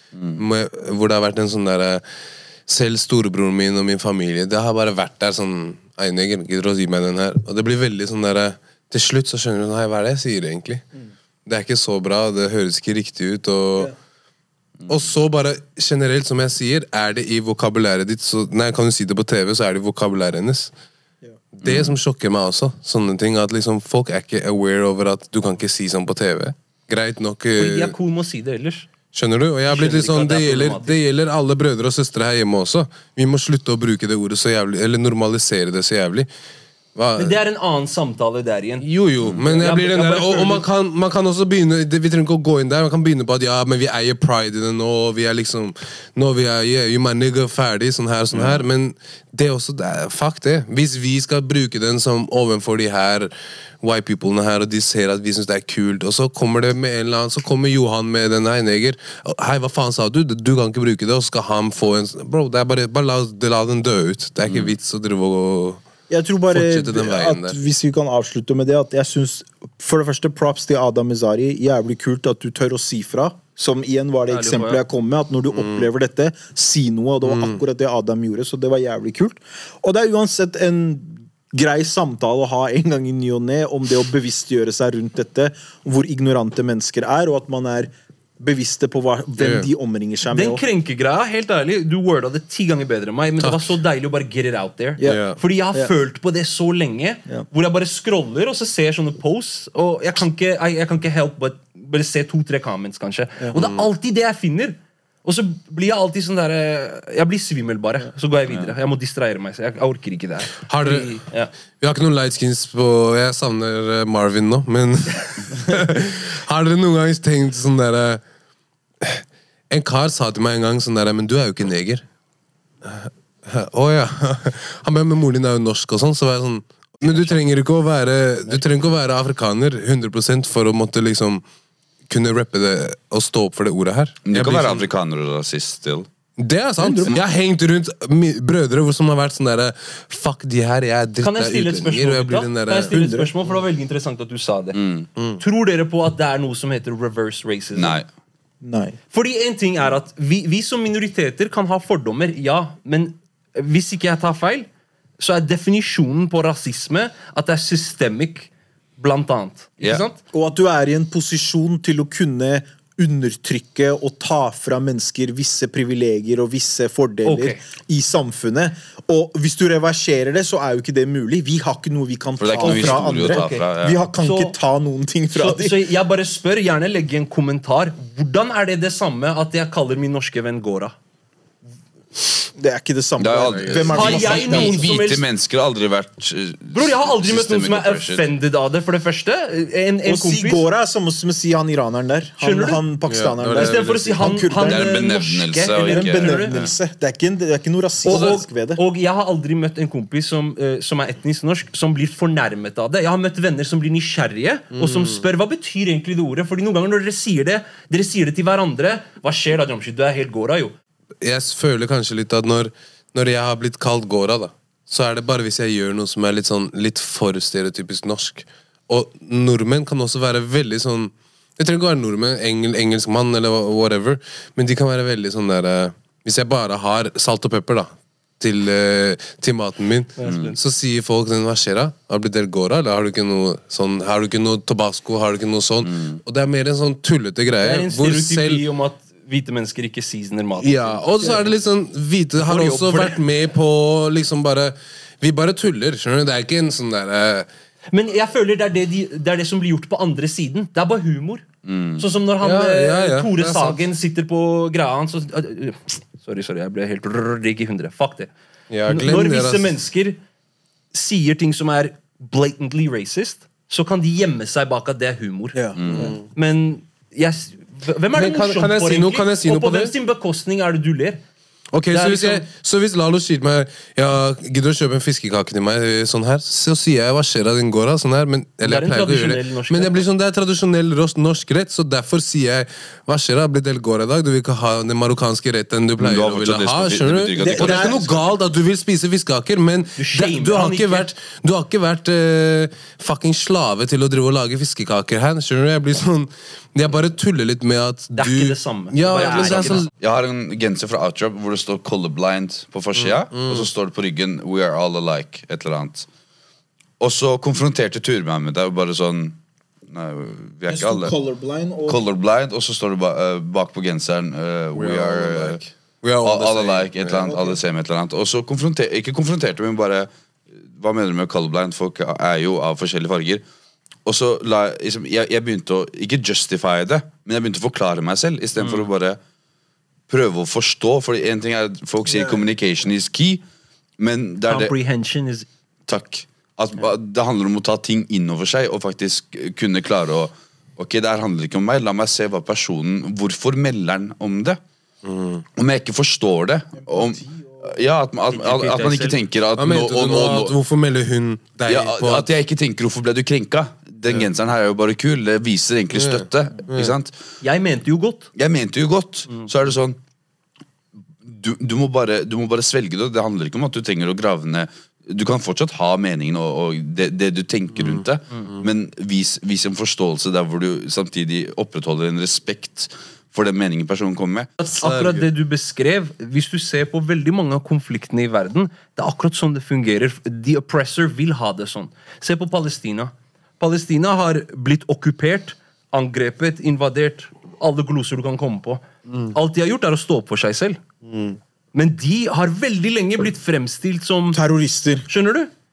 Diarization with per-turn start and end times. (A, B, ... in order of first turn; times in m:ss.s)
0:00.1-0:00.4 A
0:00.4-0:02.0 B
0:02.7-0:10.8 B
0:11.5-0:13.9 B
0:14.8-0:15.1 A
0:14.9-0:20.7 B
0:21.6-0:27.9 B
0:21.6-0:22.0 A
0:27.6-0:28.9 C
0:29.1-0:36.3 B
0:29.7-0:31.0 C
0:37.0-0:37.4 B
0:37.2-0:38.8 C
0:38.8-0:53.3 B
0:39.4-0:40.6 C
0:48.3-0:48.6 A
0:53.8-1:05.8 B
1:04.4-1:04.7 A
1:06.1-1:30.6 D
1:06.5-1:07.6 B
1:14.3-1:14.8 C
1:15.5-1:15.8 B
1:17.2-1:17.6 B
1:29.4-1:29.7 B
1:30.3-1:51.5 C
1:33.4-1:33.7 B
1:35.0-1:35.9 D
1:35.0-1:35.4 B
1:43.6-1:43.8 B
1:50.7-1:51.1 B
1:51.8-1:58.2 B
1:59.0-2:02.0 B
2:02.8-2:11.4 B
2:12.1-2:14.9 B
2:14.3-2:16.1 A
2:16.4-2:22.9 B
2:16.8-2:17.1 D
2:21.2-2:24.8 C
2:22.9-2:23.3 D
2:24.7-2:25.1 A
2:25.4-2:28.0 C
2:27.8-2:28.1 A
2:28.6-2:29.0 D
2:29.1-2:34.7 C
2:35.2-2:40.2 C
2:40.3-2:55.8 D
2:47.2-2:47.6 C
2:52.4-2:54.0 A
2:52.6-2:53.7 C
2:54.2-2:54.6 C
2:55.3-3:00.9 C
3:02.6-3:04.8 D
3:03.2-3:08.2 A
3:03.4-3:04.2 B
3:03.9-3:05.2 C
3:06.7-3:10.6 C
3:10.0-3:15.0 D
3:12.4-3:12.8 C
3:13.1-3:14.3 B
3:13.6-3:16.6 C
3:14.7-3:16.7 A
3:15.7-3:18.8 D
3:18.1-3:30.7 C
3:18.1-3:18.4 B
3:24.7-3:25.2 B
3:31.2-3:58.6 B
3:50.2-3:50.6 C
3:55.8-3:56.2 A
3:57.6-4:01.4 C
4:00.6-4:07.5 B
4:02.4-4:03.2 C
4:07.9-4:11.4 C
4:11.6-4:12.0 A
4:12.0-4:18.3 C
4:12.4-4:13.8 B
4:18.7-4:19.8 B
4:18.9-4:20.2 C
4:20.9-4:25.6 C
4:25.5-4:26.1 D
4:25.8-4:26.1 A
4:25.9-4:26.2 B
4:26.4-4:31.2 C
4:28.2-4:29.9 B
4:31.7-4:59.9 B
4:31.9-4:32.5 C
4:38.6-4:40.1 C
4:46.0-4:48.2 A
4:47.4-4:48.2 D
4:50.0-4:51.1 C
4:58.2-4:59.9 C
4:59.2-5:06.1 A
5:03.0-5:03.7 B
5:07.0-5:09.4 A
5:09.9-5:11.1 A
5:10.7-5:12.0 D
5:11.9-5:15.6 A
5:14.7-5:17.5 B
5:16.2-5:20.1 A
5:20.7-5:23.4 A
5:24.1-5:29.2 A
5:28.6-5:28.9 C
5:30.1-5:33.4 A
5:34.0-5:34.7 A
5:34.5-5:35.5 C
5:35.9-5:44.6 A
5:45.0-5:45.4 B
5:45.6-5:50.5 A
5:46.9-5:47.5 D
5:48.3-5:49.2 C
5:49.6-5:52.3 B
5:51.7-5:57.1 A
5:55.9-5:56.9 B
5:57.4-5:58.3 C
5:58.4-6:00.0 A
6:01.3-6:14.5 A
6:07.8-6:08.5 B
6:14.6-6:30.8 C
6:14.7-6:15.2 B
6:31.1-6:31.4 B
6:31.7-6:34.4 C
6:34.3-6:35.1 D
6:35.1-6:35.5 C